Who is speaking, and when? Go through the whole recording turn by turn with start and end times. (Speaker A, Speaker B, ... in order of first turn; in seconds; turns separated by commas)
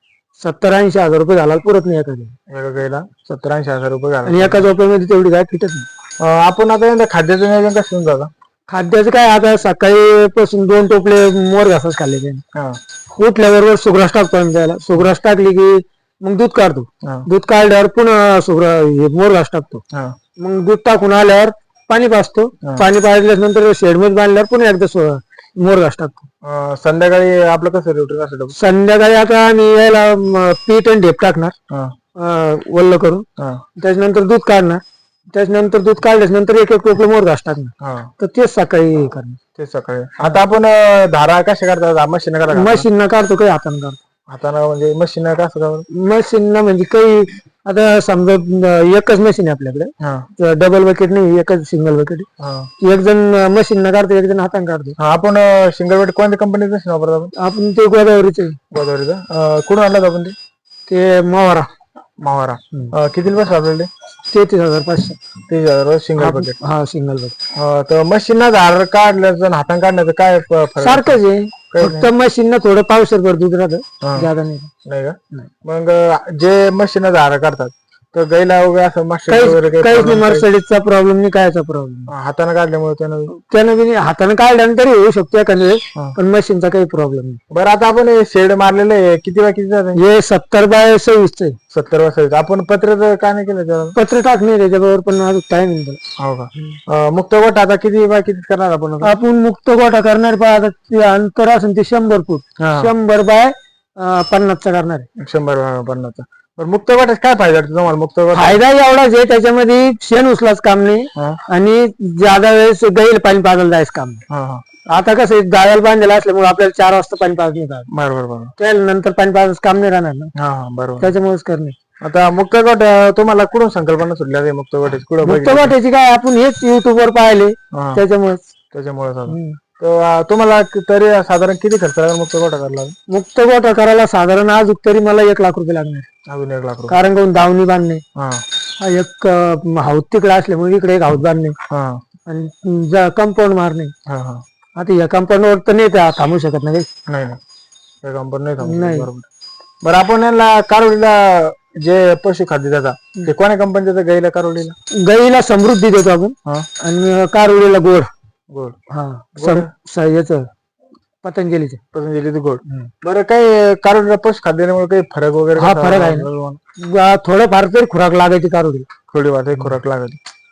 Speaker A: 0.4-2.4, Speaker B: 2.5-4.6, Speaker A: 4.2-5.9, Speaker B: 6.2-8.3, Speaker A: 8.7-12.4, Speaker A: 13.1-19.8, Speaker A: 20.4-26.2, Speaker B: 26.4-28.6, Speaker A: 28.5-31.6, Speaker B: 31.7-31.9, Speaker A: 32.1-33.2, Speaker B: 33.4-33.6, Speaker A: 33.8-34.8, Speaker A: 35.3-39.4, Speaker B: 37.8-38.1, Speaker B: 39.6-42.9, Speaker A: 42.5-44.0, Speaker B: 44.3-45.9, Speaker A: 45.9-52.3, Speaker B: 50.0-50.3, Speaker B: 52.4-52.7, Speaker A: 52.8-55.0, Speaker B: 55.0-57.3, Speaker A: 57.4-58.6, Speaker B: 58.7-60.4, Speaker A: 60.9-61.7, Speaker B: 62.2-63.9, Speaker A: 64.3-65.2, Speaker B: 65.5-66.6, Speaker A: 66.2-67.3, Speaker B: 67.5-71.2, Speaker A: 70.8-74.7, Speaker B: 71.7-72.1, Speaker B: 74.0-74.3, Speaker B: 74.8-80.4, Speaker A: 79.3-82.1, Speaker B: 82.1-83.3, Speaker A: 83.3-87.4, Speaker B: 87.5-90.0, Speaker A: 89.9-91.6, Speaker B: 91.7-94.0, Speaker A: 93.9-96.0, Speaker B: 96.2-99.1, Speaker A: 99.0-105.1, Speaker B: 102.6-102.9, Speaker B: 105.2-108.6, Speaker A: 108.3-114.2, Speaker B: 111.2-111.4, Speaker B: 114.3-114.6, Speaker A: 114.9-117.9, Speaker B: 117.9-118.5, Speaker A: 118.6-120.3, Speaker B: 120.3-121.1, Speaker A: 121.0-121.8, Speaker B: 122.0-125.7, Speaker A: 125.2-128.5, Speaker B: 127.7-128.0, Speaker B: 128.7-132.9, Speaker A: 129.3-129.6, Speaker A: 133.1-136.1, Speaker B: 136.3-137.0, Speaker A: 136.9-138.0, Speaker B: 138.2-138.4, Speaker A: 138.8-141.6, Speaker B: 141.7-142.0, Speaker A: 142.3-143.9, Speaker B: 144.1-144.4, Speaker A: 144.8-146.9, Speaker B: 147.1-147.4, Speaker B: 148.0-149.3, Speaker A: 148.6-149.1, Speaker B: 149.8-154.7, Speaker A: 154.9-158.1, Speaker B: 158.5-158.8, Speaker A: 158.9-160.5, Speaker B: 159.4-159.7, Speaker A: 161.2-161.8, Speaker B: 161.9-166.6, Speaker A: 165.6-168.9, Speaker B: 169.1-170.2